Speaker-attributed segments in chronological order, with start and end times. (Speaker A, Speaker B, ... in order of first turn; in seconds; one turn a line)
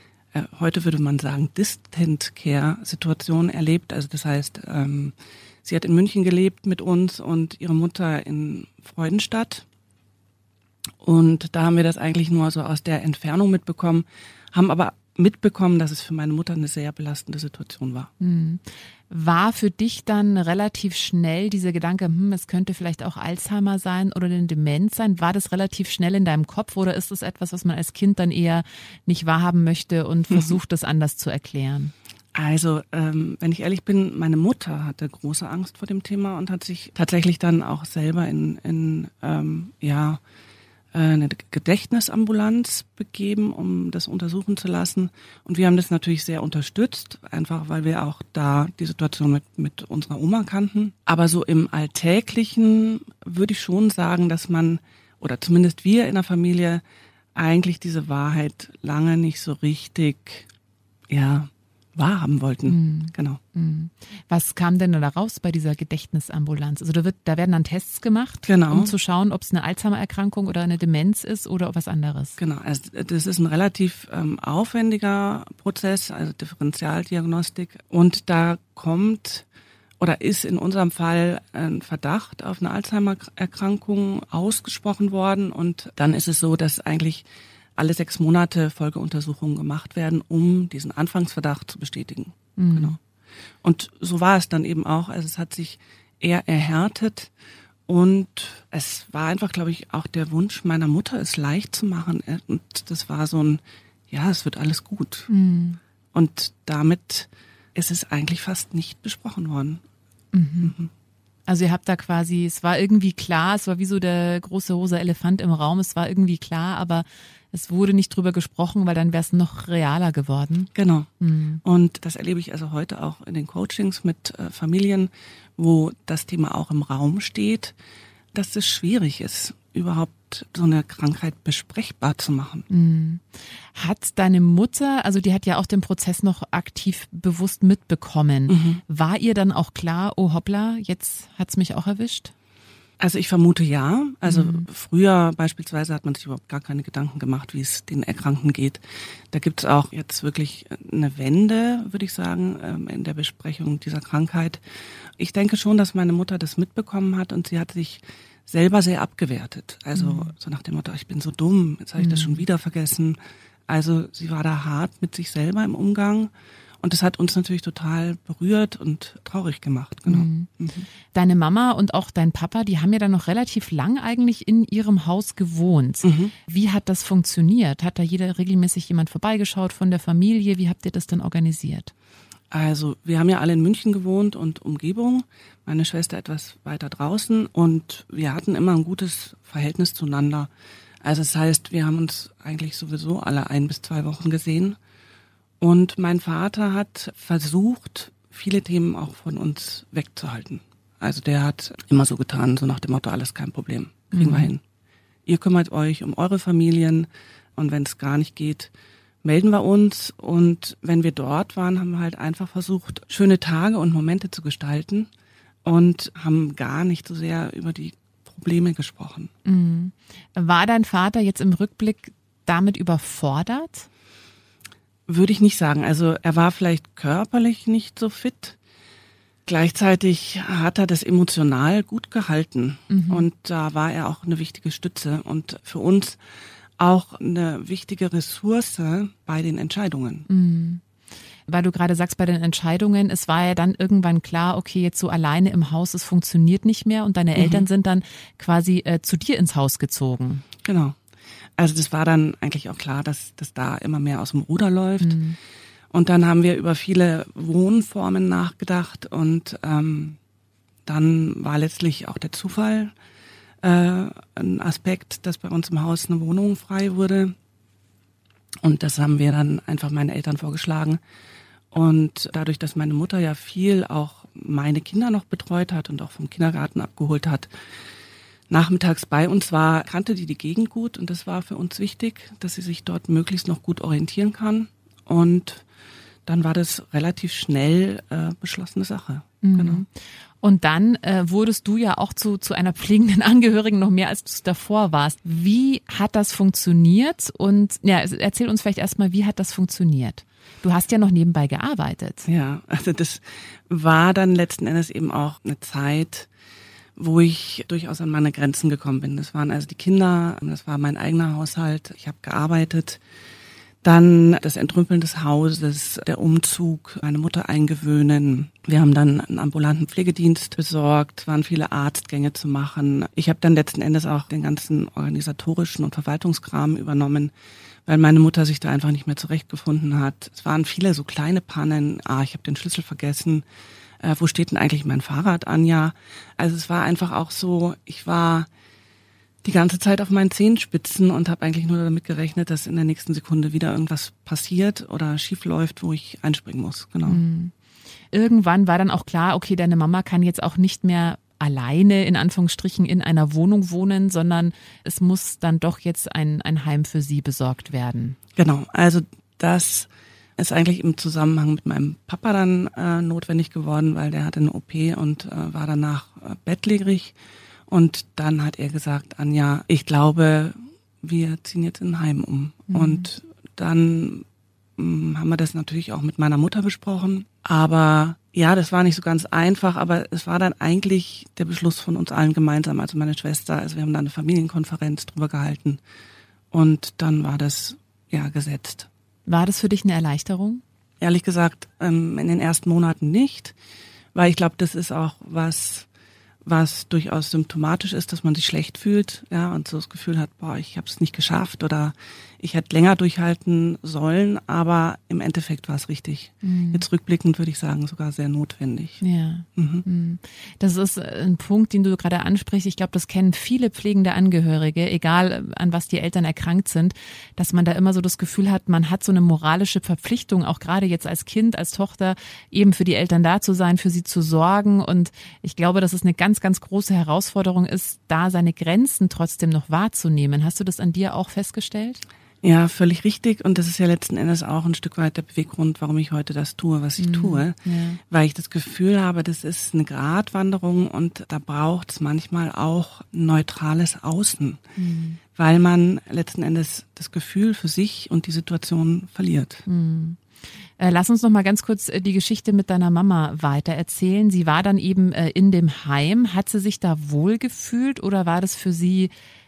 Speaker A: 0.3-9.6
Speaker A: 11.0-18.1
Speaker B: 18.2-31.9
Speaker A: 32.3-40.2
Speaker A: 40.9-56.8
Speaker A: 57.4-60.5
Speaker A: 61.1-63.4
Speaker B: 62.7-72.4
Speaker A: 68.5-68.9
Speaker A: 72.4-79.5
Speaker A: 80.0-87.2
Speaker A: 87.8-93.0
Speaker B: 92.6-93.0
Speaker A: 93.6-97.3
Speaker A: 97.9-105.3
Speaker B: 105.3-105.8
Speaker A: 106.1-109.8
Speaker B: 110.3-110.7
Speaker A: 110.6-110.9
Speaker B: 111.5-121.6
Speaker A: 120.8-121.1
Speaker A: 121.6-127.7
Speaker A: 128.3-132.7
Speaker B: 132.7-133.2
Speaker B: 133.8-142.3
Speaker A: 138.5-138.8
Speaker A: 143.0-148.8
Speaker B: 144.2-144.6
Speaker A: 149.3-154.6
Speaker A: 155.2-166.3
Speaker B: 159.9-160.3
Speaker B: 162.0-162.4
Speaker A: 166.8-170.9
Speaker B: 170.1-170.5
Speaker B: 171.1-181.9
Speaker A: 176.0-176.3
Speaker A: 182.5-190.5
Speaker A: 191.0-194.8
Speaker A: 195.6-204.6
Speaker B: 204.1-204.5
Speaker A: 205.3-208.7
Speaker A: 209.2-215.1
Speaker A: 215.6-219.3
Speaker B: 219.4-223.9
Speaker A: 225.1-228.6
Speaker A: 229.5-236.2
Speaker B: 232.9-233.3
Speaker A: 236.8-240.3
Speaker B: 240.3-240.8
Speaker B: 241.5-250.4
Speaker A: 247.4-247.7
Speaker A: 250.6-251.0
Speaker A: 251.6-255.2
Speaker B: 255.0-255.4
Speaker A: 255.9-260.2
Speaker A: 260.9-262.9
Speaker A: 263.6-267.3
Speaker A: 268.6-271.0
Speaker A: 271.7-277.5
Speaker A: 278.5-285.6
Speaker A: 286.3-289.8
Speaker B: 289.4-289.9
Speaker B: 290.4-302.3
Speaker A: 302.3-306.3
Speaker A: 307.0-313.0
Speaker A: 313.8-327.3
Speaker A: 327.9-333.4
Speaker A: 334.0-338.5
Speaker A: 339.4-347.2
Speaker B: 347.1-347.5
Speaker B: 348.1-358.2
Speaker A: 358.4-367.1
Speaker A: 367.7-374.2
Speaker B: 372.7-373.1
Speaker A: 374.8-385.8
Speaker A: 386.5-388.9
Speaker B: 389.3-390.6
Speaker A: 391.0-393.5
Speaker A: 394.1-395.9
Speaker A: 396.4-409.0
Speaker B: 406.4-406.9
Speaker B: 409.0-432.0
Speaker A: 409.6-409.9
Speaker A: 432.4-437.6
Speaker B: 437.0-438.0
Speaker A: 438.1-444.6
Speaker B: 444.8-445.2
Speaker A: 445.4-449.6
Speaker B: 449.7-450.2
Speaker B: 450.8-459.1